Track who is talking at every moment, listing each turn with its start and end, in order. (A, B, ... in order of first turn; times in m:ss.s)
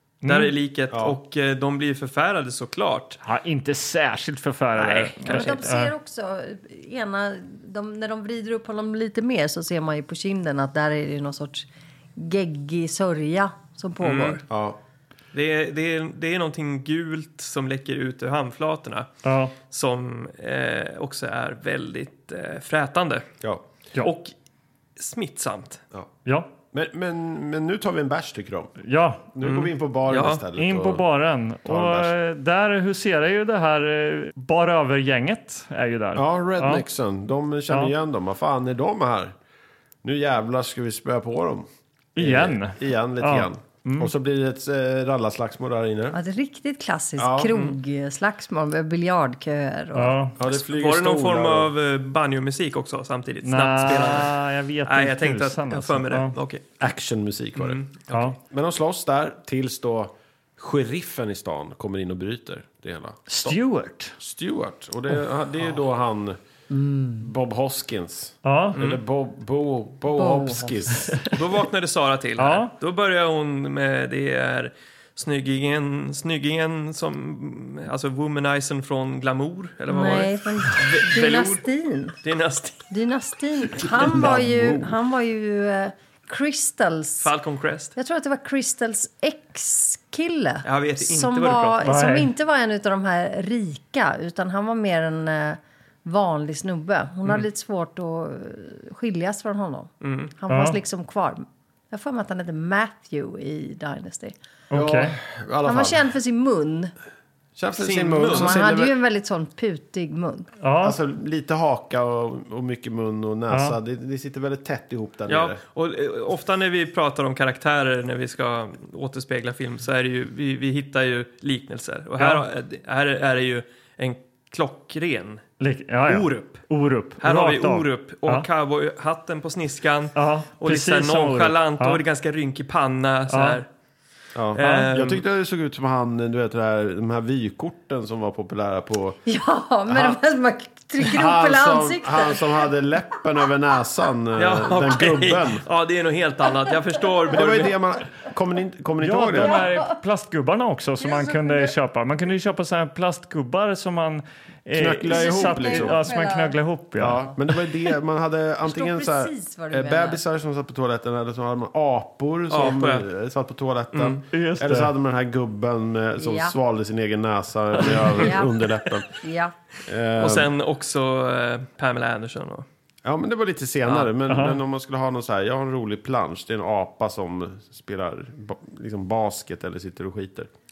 0:00.2-0:00.5 A
0:00.2-0:03.2 B
0:00.9-0:01.2 C
0:03.2-0:05.9 A
0:04.8-0:05.7 B
0:05.2-0:14.4 D
0:14.0-0:14.4 B
0:14.5-0:14.8 C
0:15.3-0:19.1 B
0:19.2-0:19.5 A
0:19.6-0:23.3 B
0:23.4-0:23.6 C
0:24.0-0:24.3 B
0:25.0-0:25.8 B
0:26.3-0:26.5 A
0:26.7-0:28.8 C
0:28.8-0:29.3 A
0:29.3-0:31.0 C
0:29.4-0:30.4 B
0:30.5-0:36.8 A
0:31.6-0:32.1 C
0:36.1-0:39.3 C
0:40.0-0:46.2 C
0:42.2-0:44.1 A
0:46.1-0:50.2 D
0:47.2-0:47.5 C
0:49.9-0:50.4 A
0:50.4-0:51.7 C
0:50.5-0:56.6 B
0:53.4-0:56.3 A
0:56.8-0:57.8 C
0:57.6-0:58.4 B
0:58.4-1:03.6 C
1:03.3-1:04.2 A
1:04.2-1:06.4 C
1:06.7-1:07.2 D
1:07.2-1:11.2 C
1:08.4-1:08.8 A
1:08.7-1:09.0 B
1:10.1-1:11.1 D
1:11.3-1:21.6 B
1:12.4-1:12.7 A
1:19.9-1:22.2 D
1:22.2-1:22.9 B
1:22.9-1:27.3 D
1:23.8-1:25.0 C
1:27.2-1:27.9 B
1:28.0-1:44.3 D
1:30.6-1:31.9 B
1:31.8-1:32.3 A
1:40.0-1:40.3 B
1:40.5-1:40.8 A
1:44.7-1:45.2 A
1:44.7-1:46.1 C
1:45.6-1:46.9 D
1:47.6-1:49.0 C
1:47.8-1:48.6 B
1:48.3-1:50.5 D
1:50.6-1:51.0 A
1:50.8-1:55.6 C
1:53.5-1:53.8 A
1:55.3-2:05.4 B
2:02.2-2:02.4 A
2:05.6-2:08.5 A
2:06.1-2:06.7 B
2:07.2-2:13.7 B
2:10.2-2:12.0 A
2:13.3-2:13.6 A
2:14.3-2:19.2 C
2:14.6-2:15.2 B
2:14.6-2:14.9 A
2:19.3-2:22.7 D
2:19.9-2:20.2 C
2:21.0-2:25.6 C
2:24.4-2:27.8 B
2:27.3-2:29.6 C
2:29.0-2:37.3 A
2:29.4-2:29.9 D
2:31.0-2:31.7 D
2:34.7-2:36.1 C
2:35.1-2:36.6 D
2:37.0-2:49.1 C
2:38.6-2:40.2 D
2:42.5-2:43.1 B
2:43.9-2:44.2 B
2:44.3-2:44.9 A
2:46.2-2:46.6 D
2:48.2-2:48.5 D
2:49.2-2:49.5 D
2:49.8-2:50.5 C
2:50.2-2:52.6 B
2:53.0-3:00.5 C
2:53.9-2:54.1 B
2:54.3-2:54.6 A